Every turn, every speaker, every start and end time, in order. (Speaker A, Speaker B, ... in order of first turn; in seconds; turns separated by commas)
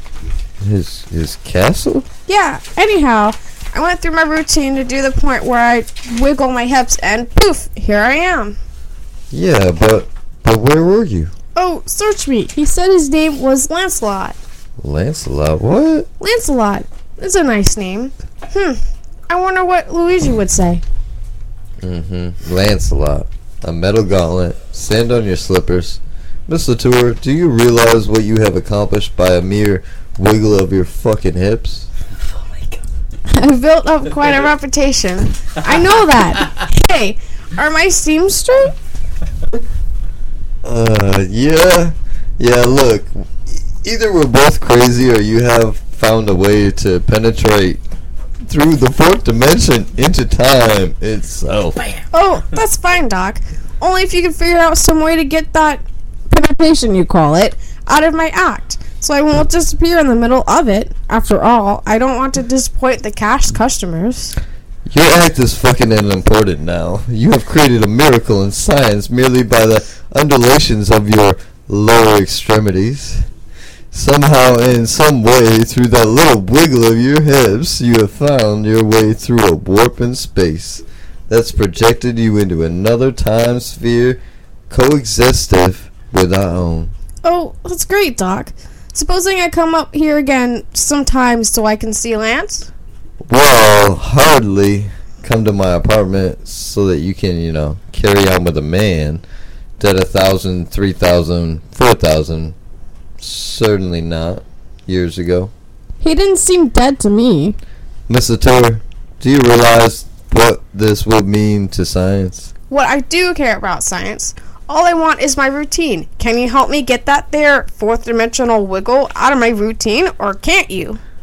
Speaker A: 0.6-2.1, Speaker B: 2.3-8.6, Speaker A: 9.3-11.3, Speaker B: 11.6-14.3, Speaker A: 14.8-16.1, Speaker B: 16.2-20.8, Speaker A: 21.8-31.9, Speaker B: 33.3-38.7, Speaker A: 40.6-47.8, Speaker A: 48.4-51.8, Speaker B: 52.1-64.3, Speaker A: 64.8-73.3, Speaker A: 73.9-84.2, Speaker A: 84.7-86.9, Speaker B: 87.2-92.7, Speaker A: 93.3-99.2, Speaker A: 99.8-102.5, Speaker A: 103.2-105.5, Speaker B: 106.0-107.6, Speaker A: 108.1-112.5, Speaker B: 112.7-121.0